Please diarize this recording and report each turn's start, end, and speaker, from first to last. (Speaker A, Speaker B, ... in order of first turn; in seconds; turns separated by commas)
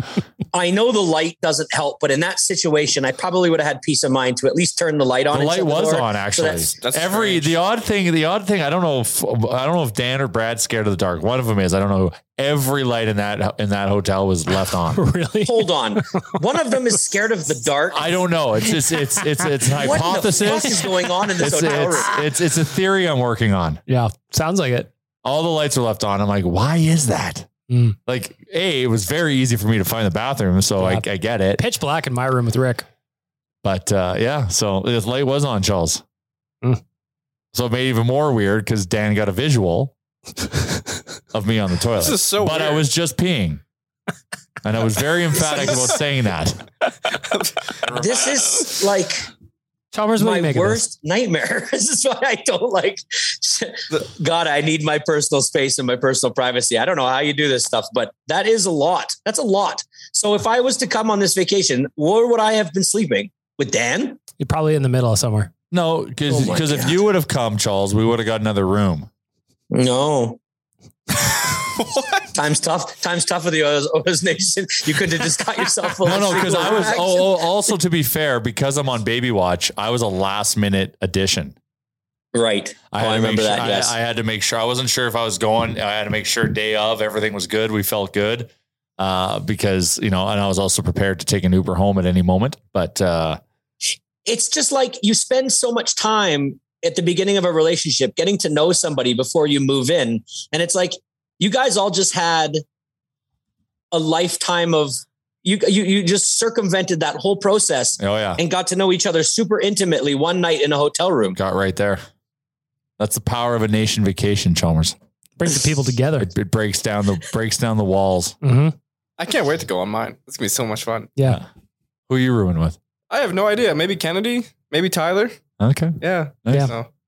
Speaker A: 0.5-6.7, Speaker B: 5.3-15.0, Speaker C: 6.8-7.5, Speaker D: 14.9-15.7, Speaker A: 15.4-18.1, Speaker B: 17.9-23.8, Speaker A: 19.7-22.2, Speaker D: 23.9-24.9, Speaker B: 25.2-27.5, Speaker D: 27.7-27.9, Speaker B: 28.1-31.6, Speaker D: 30.8-31.0, Speaker D: 31.6-32.9, Speaker B: 33.6-36.0, Speaker B: 37.5-39.9, Speaker B: 41.3-43.6, Speaker C: 42.0-42.9, Speaker B: 44.6-46.6, Speaker C: 45.5-45.9, Speaker C: 47.1-48.8, Speaker A: 47.9-49.3, Speaker D: 49.9-50.8, Speaker A: 50.2-64.2, Speaker D: 64.4-65.5, Speaker B: 65.7-69.1, Speaker A: 66.3-67.0, Speaker A: 69.7-70.4, Speaker C: 71.8-72.2, Speaker A: 72.3-77.4, Speaker B: 76.0-81.5, Speaker A: 82.3-83.9, Speaker B: 82.9-93.4, Speaker A: 94.2-102.6, Speaker A: 103.9-111.4, Speaker B: 108.0-108.4, Speaker B: 111.3-112.0, Speaker B: 113.0-115.0, Speaker D: 115.4-116.3, Speaker B: 116.2-118.4, Speaker D: 118.4-118.7, Speaker C: 119.2-121.1, Speaker B: 122.1-122.8, Speaker C: 123.1-125.4, Speaker B: 125.6-126.7, Speaker C: 126.0-126.9